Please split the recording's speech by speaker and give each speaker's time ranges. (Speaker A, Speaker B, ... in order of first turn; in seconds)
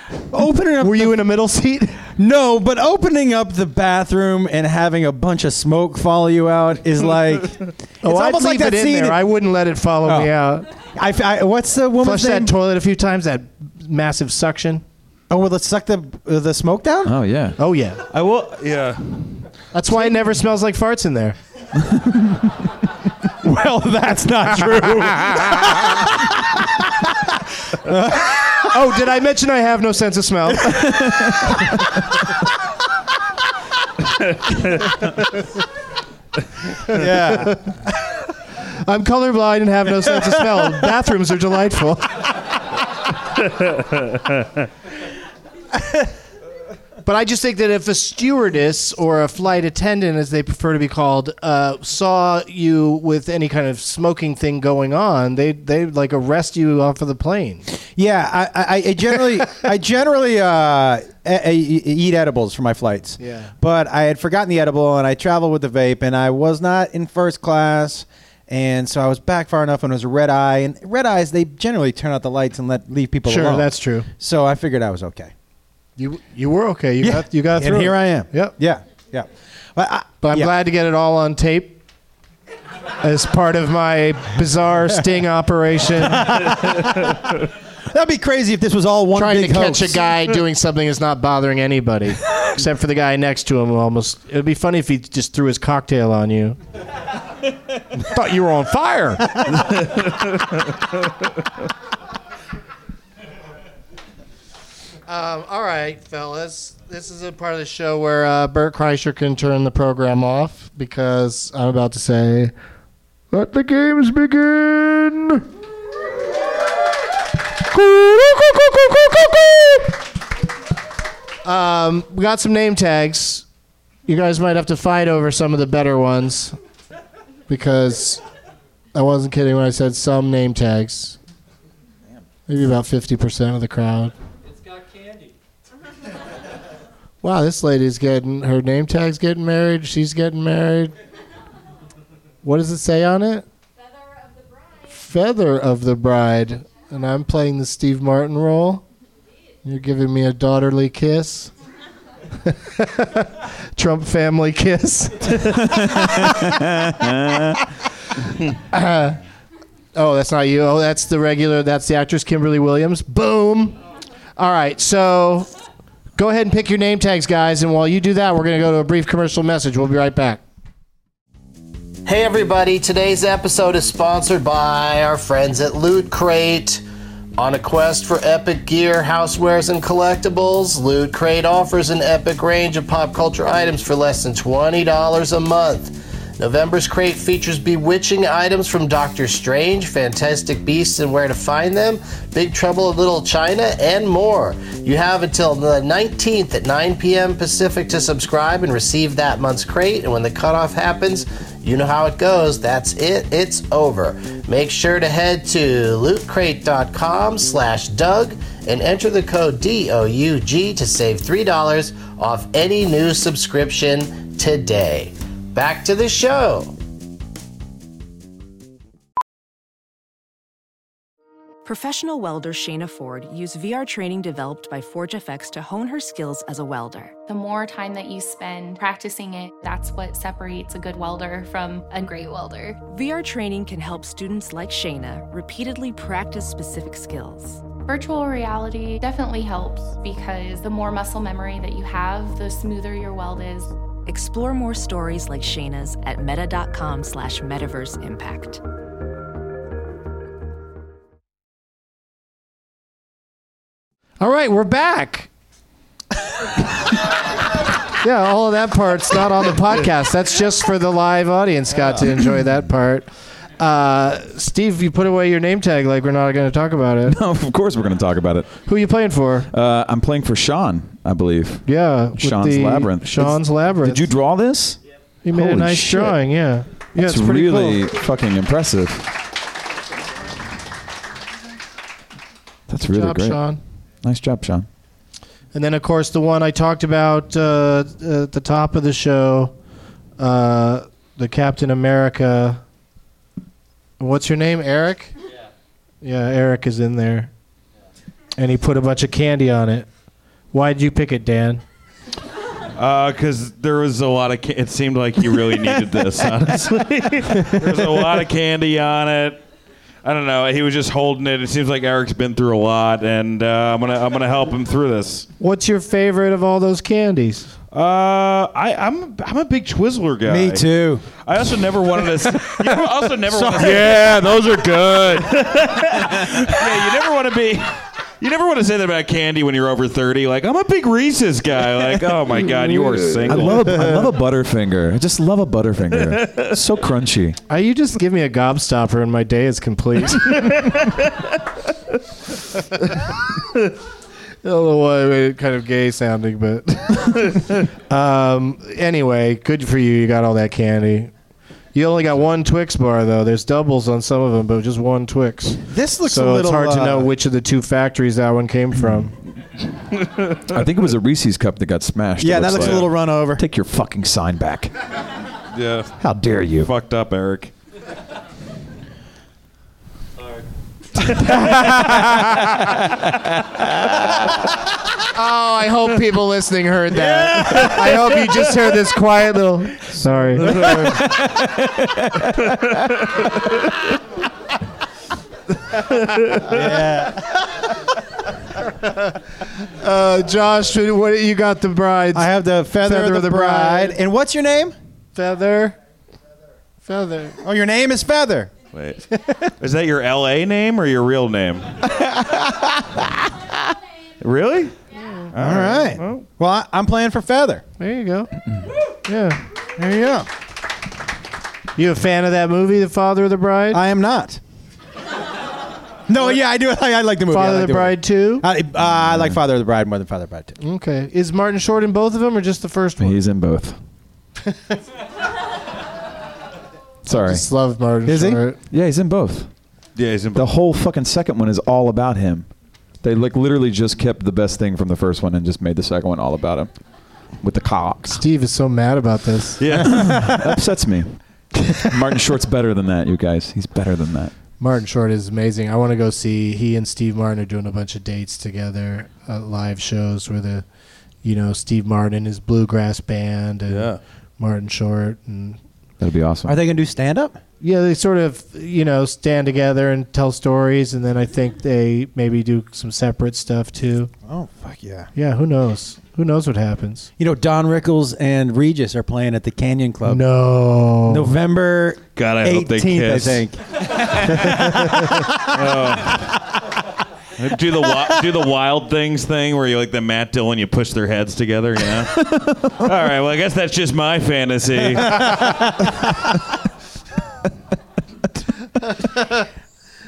Speaker A: 0.3-1.2, 2.2-9.2, 10.1-10.3, 10.9-12.5, 15.3-17.1, 23.4-26.8, 27.7-28.7, 36.9-37.7, 57.9-75.3, 77.0-80.5, 86.0-90.3, 320.3-321.1, 322.4-324.1, 355.7-357.1, 362.2-363.4, 371.3-372.0, 376.9-378.5, 380.5-381.0, 386.4-387.2, 392.1-394.8, 397.4-398.5, 405.4-407.6, 409.8-410.3, 413.7-414.4, 416.1-420.6, 428.1-428.4, 456.5-457.4, 464.3-465.1, 467.2-470.2, 471.1-475.4
Speaker B: 0.8-2.1, 8.0-10.7, 12.0-14.8, 17.6-18.0, 19.7-21.4, 28.7-31.9, 36.9-37.7, 38.7-42.4, 47.1-57.7, 63.2-63.5, 73.2-74.1, 76.0-78.5, 80.2-81.8, 83.0-86.4, 89.1-96.6, 98.0-99.7, 105.1-112.5, 113.3-115.5, 117.7-120.0, 121.4-123.5, 124.1-126.6, 127.5-128.2, 128.9-131.2, 132.5-134.1, 137.2-140.9, 142.4-143.4, 144.9-148.8, 149.6-151.5, 152.4-156.7, 158.5-159.2, 159.9-163.8, 164.4-165.5, 166.2-170.4, 254.2-255.3, 258.0-267.2, 268.7-269.5, 271.7-274.1, 275.2-277.8, 282.9-283.6, 285.5-289.6, 290.2-292.6, 294.0-295.1, 296.0-297.3, 298.4-299.9, 300.5-301.6, 315.4-317.5, 333.5-333.9, 337.5-340.7, 344.4-351.1, 351.8-359.1, 375.1-380.9, 388.8-389.1, 389.6-394.0, 395.1-395.8, 396.9-397.4, 404.9-405.3, 407.8-408.3, 409.1-409.4, 411.8-413.8, 417.3-418.4, 420.6-423.2, 427.1-428.6, 438.2-439.6, 444.6-450.6, 451.2-455.6, 457.6-464.1, 465.1-467.1, 470.1-471.3, 488.8-489.4
Speaker C: 17.1-17.6, 21.8-22.5, 30.9-31.5, 155.6-157.6, 267.1-268.5, 269.5-271.6, 272.2-274.8, 275.3-276.2, 277.0-279.1, 282.7-283.4, 284.0-284.7, 333.2-337.4, 360.5-364.7, 366.0-366.7, 372.5-374.4, 381.4-383.1, 419.0-419.4, 423.0-423.8, 427.1-427.4, 428.7-429.5, 430.4-432.5, 433.0-436.7, 437.4-438.2, 439.8-441.2, 441.8-444.3, 456.0-456.6, 482.3-482.7
Speaker D: 18.1-19.4, 302.8-309.4, 310.0-315.3, 317.7-333.8, 336.2-336.5, 340.6-341.0, 362.6-362.9, 365.5-366.0, 366.6-367.5, 380.6-381.1, 398.7-401.9, 404.2-404.8, 405.3-406.3, 430.0-430.5, 439.6-440.2, 453.7-454.0, 472.2-476.4, 477.4-482.2, 482.7-485.6
Speaker E: 172.1-176.8, 177.4-216.7
Speaker F: 221.7-227.2, 232.9-237.7, 244.1-248.6
Speaker G: 227.3-232.8, 237.8-243.8